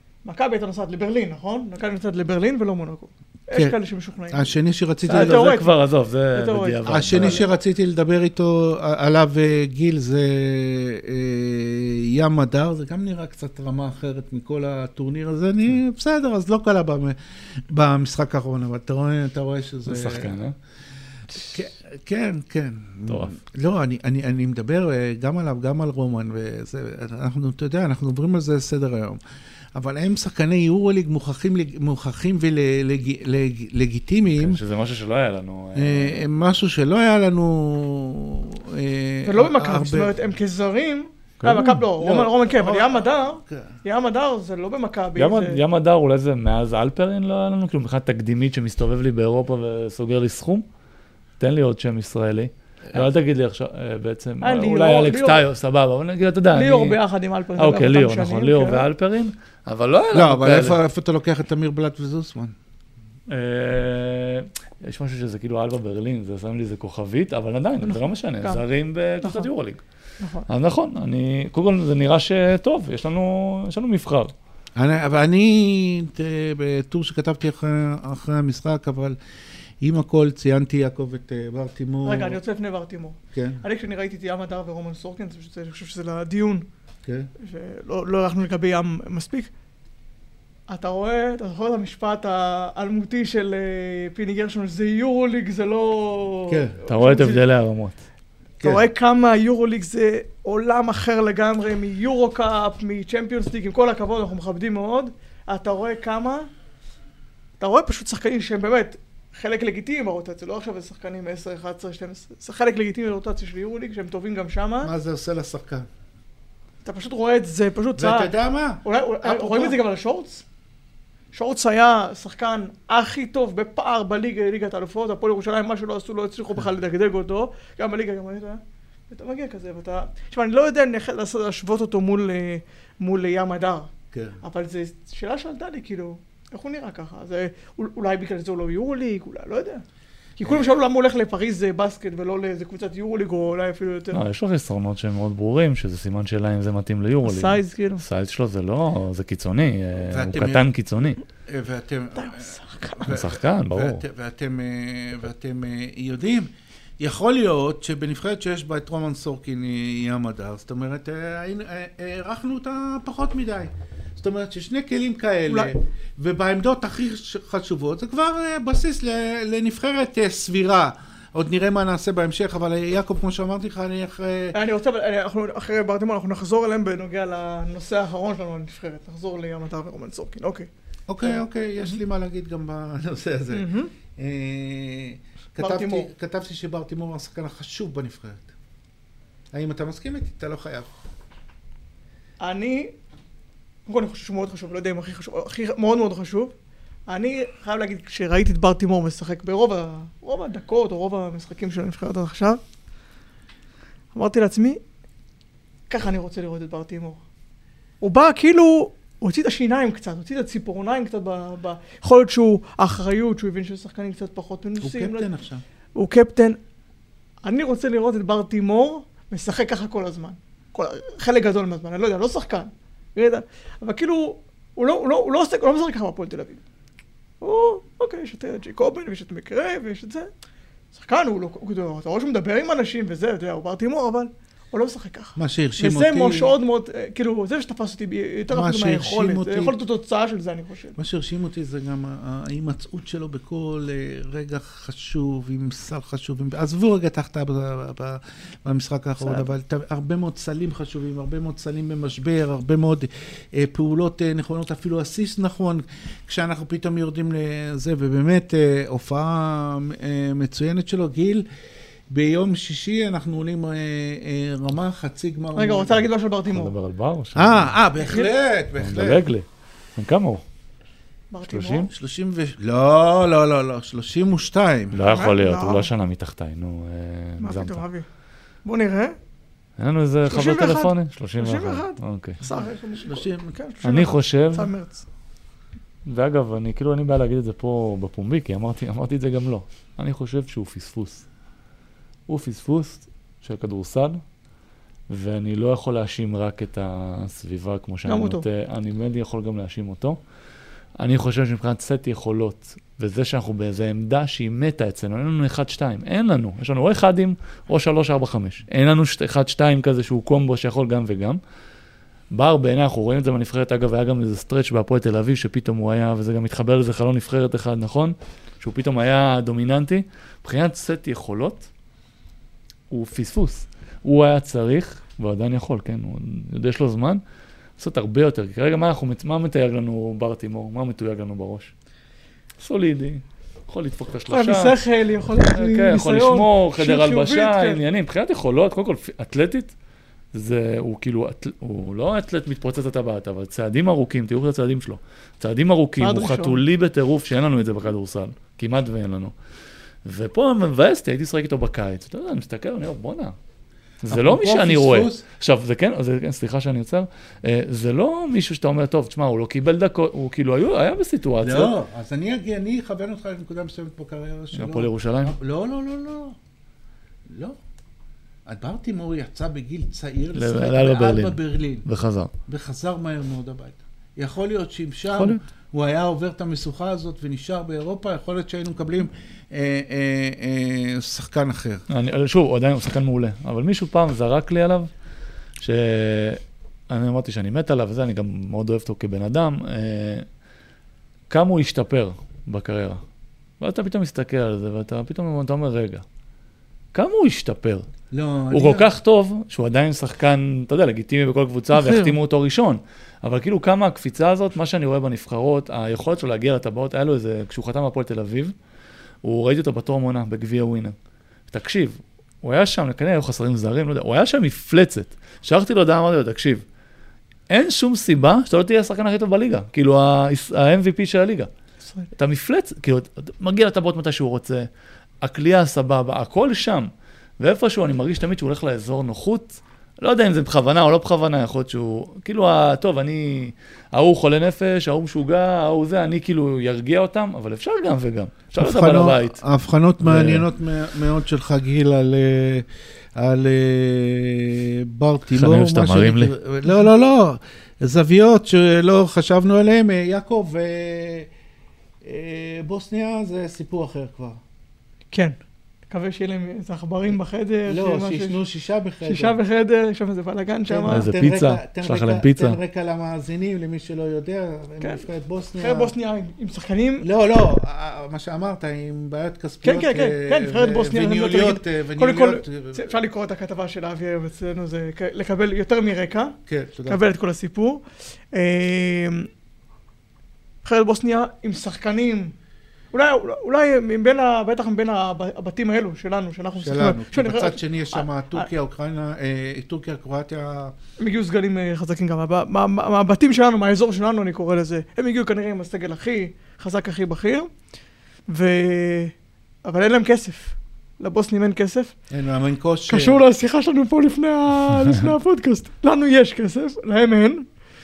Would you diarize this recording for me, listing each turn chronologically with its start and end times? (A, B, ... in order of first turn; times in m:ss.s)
0:00.2-0:04.5 A
0:04.3-0:05.5 B
0:05.0-0:05.7 A
0:05.1-0:07.4 C
0:06.3-0:07.4 A
0:06.8-0:17.2 B
0:17.7-0:20.3 B
0:19.9-0:20.6 C
0:21.3-0:29.2 B
0:23.1-0:23.3 C
0:29.7-0:34.6 B
0:34.4-0:36.2 C
0:35.7-0:40.1 B
0:39.2-0:45.6 A
0:41.4-0:41.8 C
0:42.0-0:43.7 B
0:45.2-0:50.6 C
0:51.4-0:57.0 C
0:54.4-0:55.4 A
0:56.5-0:58.8 A
0:57.6-1:00.8 C
1:00.1-1:02.5 B
1:03.3-1:09.8 C
1:07.8-1:08.6 A
1:09.2-1:09.5 A
1:10.2-1:10.5 A
1:10.5-1:14.3 C
1:14.8-1:19.2 B
1:19.8-1:22.4 B
1:22.0-1:26.7 A
1:23.3-1:23.6 B
1:27.4-1:29.5 A
1:30.7-1:37.4 A
1:36.5-1:36.8 B
1:36.9-1:38.0 C
1:38.6-1:38.8 B
1:38.6-1:46.5 A
1:47.6-1:54.9 A
1:54.8-1:55.9 B
1:56.8-2:00.4 A
1:58.0-1:59.8 B
2:01.3-2:13.9 A
2:14.1-2:14.4 B
2:14.4-2:19.8 A
2:20.4-2:24.2 A
2:24.1-2:31.2 C
2:27.2-2:28.0 A
2:30.0-2:30.7 B
2:31.4-2:54.6 B
2:32.1-2:33.2 A
2:33.0-2:34.0 C
2:45.5-2:45.7 A
2:54.5-3:00.7 A
3:01.1-3:08.5 B
3:01.2-3:02.0 A
3:03.5-3:03.9 A
3:05.6-3:06.1 A
3:09.5-3:10.9 B
3:12.4-3:12.9 A
3:13.9-3:16.5 A
3:17.1-3:22.6 A
3:24.1-3:24.8 A
3:25.9-3:27.2 A
3:28.0-3:35.3 A
3:34.8-3:35.6 B
3:35.9-3:36.6 A
3:37.4-3:46.6 A
3:47.4-3:50.3 A
3:50.9-4:01.0 A
3:55.4-3:56.5 B
3:58.5-3:59.8 B
4:01.0-4:21.4 B
4:09.2-4:09.5 A
4:22.1-4:26.0 B
4:25.5-4:26.7 A
4:26.5-4:27.8 C
4:27.3-4:29.2 B
4:28.0-4:28.3 A
4:28.8-4:30.4 C
4:31.3-4:31.9 A
4:31.4-4:31.9 C
4:31.9-4:35.0 B
4:34.9-4:37.8 C
4:35.0-4:35.9 A
4:37.4-4:38.0 A
4:38.6-4:39.2 A
4:39.8-4:42.4 C
4:40.3-4:45.0 A
4:42.6-4:43.5 B
4:43.8-4:44.7 C
4:46.0-4:51.2 C
4:52.3-4:54.2 C
4:55.1-5:00.2 C
4:58.0-4:58.4 A
5:01.0-5:11.4 C
5:12.3-5:21.7 C
5:22.9-5:27.2 C
5:27.8-5:31.7 C
5:32.6-5:34.8 C
5:34.3-5:37.8 A
5:35.5-5:39.7 C
5:40.3-5:49.3 C
5:46.0-5:46.6 A
5:50.0-5:53.3 C
5:54.0-6:01.8 C
5:54.1-5:55.2 B
6:01.4-6:06.4 B
6:04.5-6:05.3 C
6:07.3-6:07.6 B
6:08.4-6:11.8 B
6:10.3-6:12.3 C
6:12.5-6:21.8 B
6:15.1-6:15.4 C
6:21.9-6:24.9 C
6:25.6-6:30.2 C
6:31.3-6:33.0 C
6:33.6-6:36.0 C
6:36.9-6:37.9 C
6:38.1-6:38.9 B
6:38.5-6:48.5 C
6:41.8-6:42.1 A
6:49.2-6:50.9 C
6:51.5-6:56.6 C
6:57.5-7:01.5 C
7:02.2-7:04.7 C
7:05.2-7:19.4 C
7:18.6-7:31.3 B
7:20.0-7:20.5 C
7:25.3-7:26.3 C
7:32.0-7:34.4 B
7:35.1-7:35.4 A
7:35.9-7:38.4 A
7:37.7-7:39.4 B
7:39.0-7:41.1 A
7:40.7-7:45.9 B
7:40.9-7:42.6 C
7:45.6-7:47.1 A
7:47.0-7:53.0 B
7:49.6-7:59.3 A
7:56.5-7:57.0 B
8:00.6-8:02.3 A
8:02.9-8:08.5 A
8:06.6-8:10.7 B
8:11.0-8:17.5 A
8:18.3-8:21.9 A
8:22.1-8:23.2 B
8:22.9-8:27.5 A